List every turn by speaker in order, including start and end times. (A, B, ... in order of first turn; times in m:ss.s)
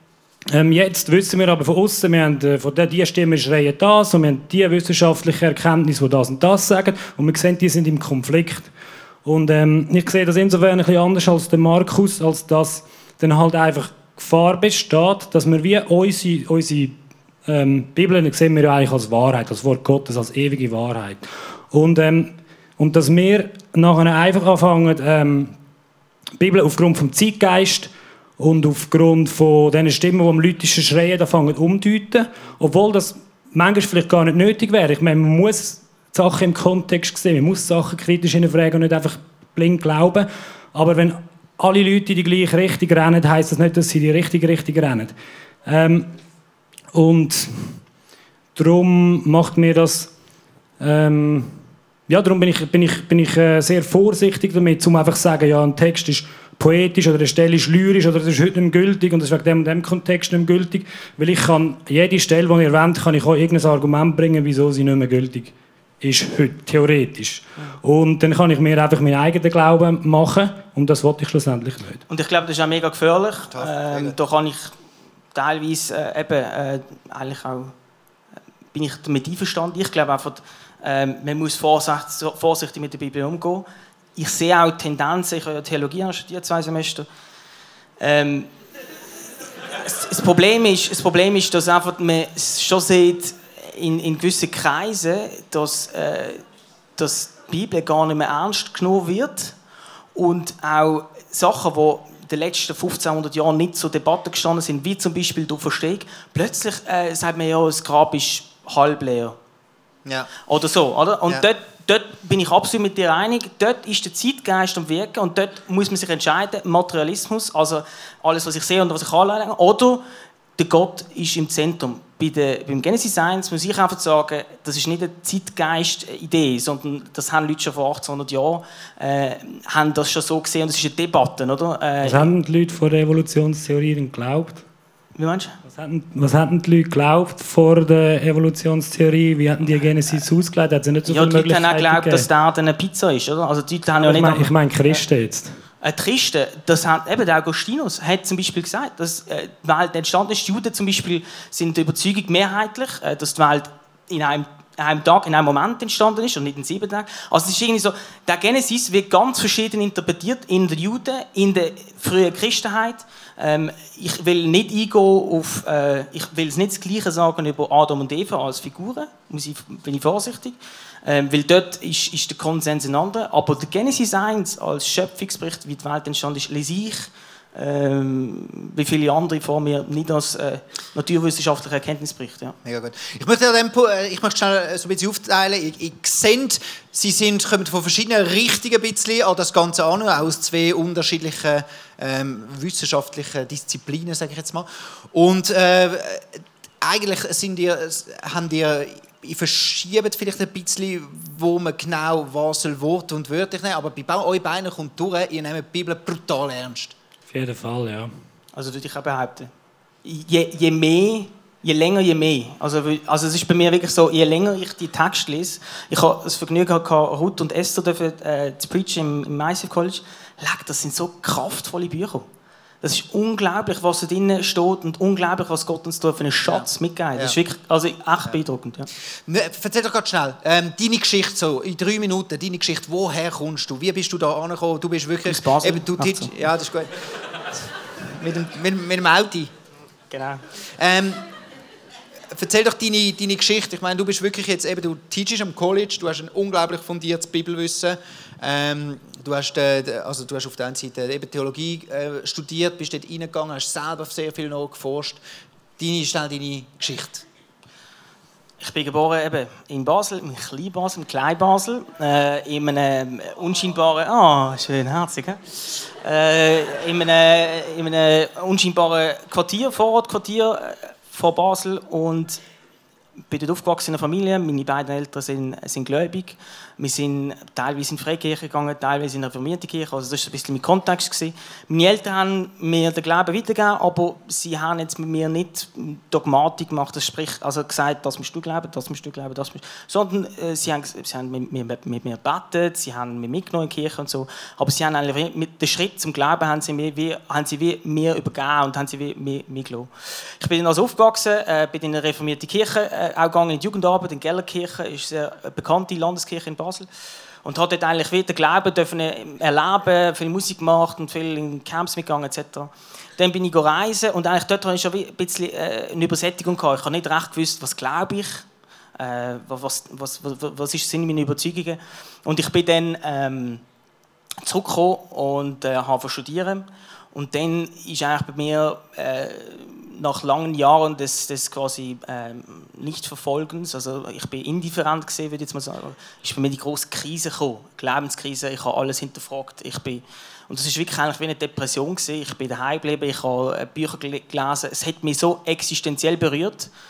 0:00.5-0:08.7 A
0:09.2-0:17.0 A
0:17.5-0:25.6 A
0:26.4-0:45.1 A
0:45.7-0:46.1 A
0:46.9-0:47.8 A
0:48.6-0:50.1 A
0:50.8-1:12.0 A
1:12.1-1:14.7 B
1:13.5-1:14.2 C
1:15.3-1:17.7 B
1:18.7-1:27.1 B
1:28.0-1:28.5 B
1:29.8-1:36.4 B
1:37.0-1:39.6 B
1:40.2-1:49.4 B
1:50.0-1:50.3 C
1:50.5-2:00.0 B
2:00.6-2:12.3 B
2:12.0-2:14.6 A
2:15.2-2:15.6 B
2:15.7-2:22.3 A
2:21.1-2:25.0 B
2:23.9-2:25.6 A
2:25.8-3:02.6 B
3:02.6-3:27.0 C
3:27.3-3:28.1 A
3:28.6-3:29.5 B
3:30.0-3:42.3 B
3:42.8-3:48.9 B
3:46.5-3:47.4 C
3:49.3-3:57.0 C
3:55.3-3:56.3 B
3:58.0-3:59.5 C
4:00.1-4:00.4 B
4:00.8-4:01.2 C
4:02.3-4:15.2 C
4:15.8-4:17.2 C
4:18.6-4:32.4 B
4:33.3-5:06.9 B
5:07.4-5:18.4 B
5:19.0-5:23.6 B
5:24.4-5:46.7 B